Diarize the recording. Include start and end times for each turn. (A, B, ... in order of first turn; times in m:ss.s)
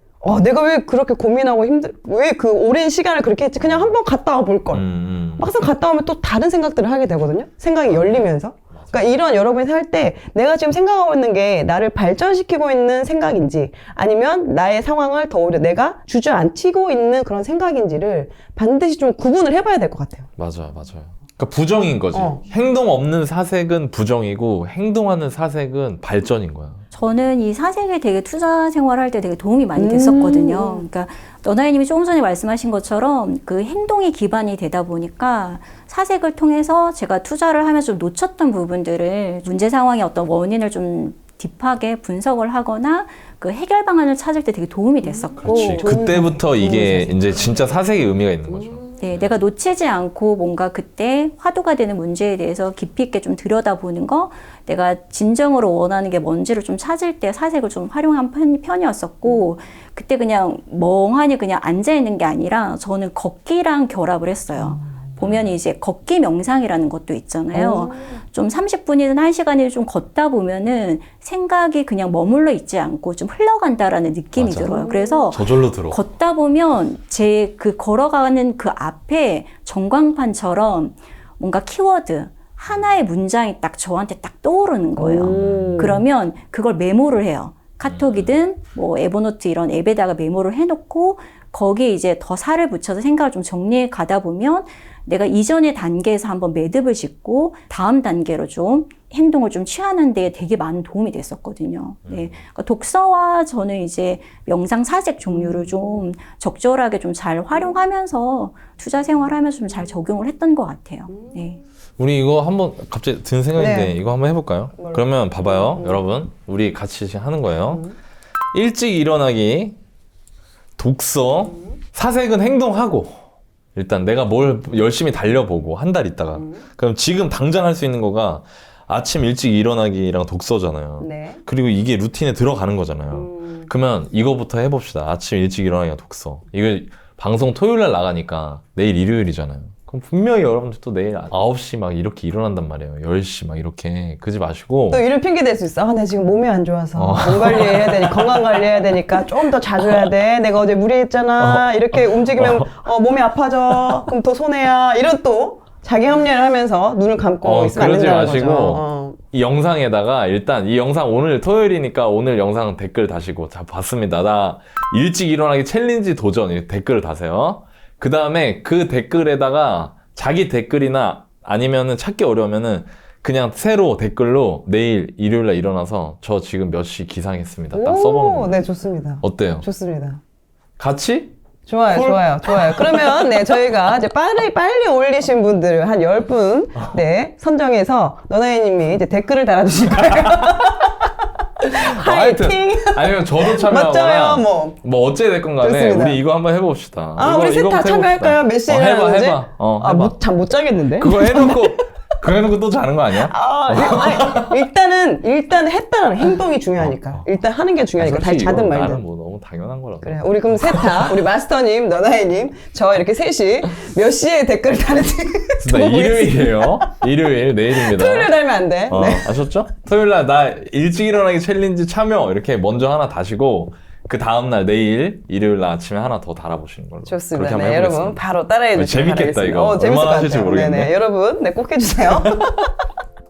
0:00.2-0:20.3 A
0:03.6-0:04.0 B
0:04.7-0:05.5 B
0:07.9-0:09.2 B
0:20.4-0:26.8 B
0:22.1-0:22.4 A
0:26.9-0:46.0 C
0:29.7-0:30.9 A
0:45.0-0:47.6 A
0:45.4-0:49.4 B
0:49.0-1:51.6 C
1:05.2-1:05.5 B
1:07.5-1:08.2 A
1:14.3-1:14.7 B
1:14.7-1:15.3 A
1:15.3-1:16.0 B
1:25.0-1:26.0 A
1:25.2-1:26.0 B
1:27.8-1:28.3 B
1:42.0-1:42.4 B
1:45.3-1:45.8 A
1:52.0-1:57.9 B
1:53.6-1:54.0 A
1:54.7-1:56.0 A
1:57.7-1:57.9 A
1:58.5-1:59.8 B
2:00.8-2:03.2 B
2:03.7-2:25.0 B
2:11.0-2:11.4 A
2:24.9-2:39.2 A
2:27.0-2:29.2 B
2:29.8-2:30.1 B
2:31.4-2:32.8 B
2:33.7-2:34.1 B
2:37.4-2:58.5 B
2:57.7-3:00.2 A
2:59.2-2:59.6 B
3:00.8-3:01.3 B
3:01.7-3:11.1 A
3:01.9-3:03.4 B
3:10.1-3:10.9 B
3:11.6-3:20.2 B
3:11.7-3:14.8 A
3:15.6-3:16.2 A
3:17.2-3:21.8 A
3:20.9-3:24.6 B
3:23.1-3:29.0 A
3:26.8-3:27.2 B
3:28.0-3:31.1 B
3:30.0-3:37.0 A
3:35.6-3:38.3 B
3:37.7-3:39.4 A
3:38.9-3:48.2 B
3:47.0-3:52.6 A
3:48.7-3:50.9 B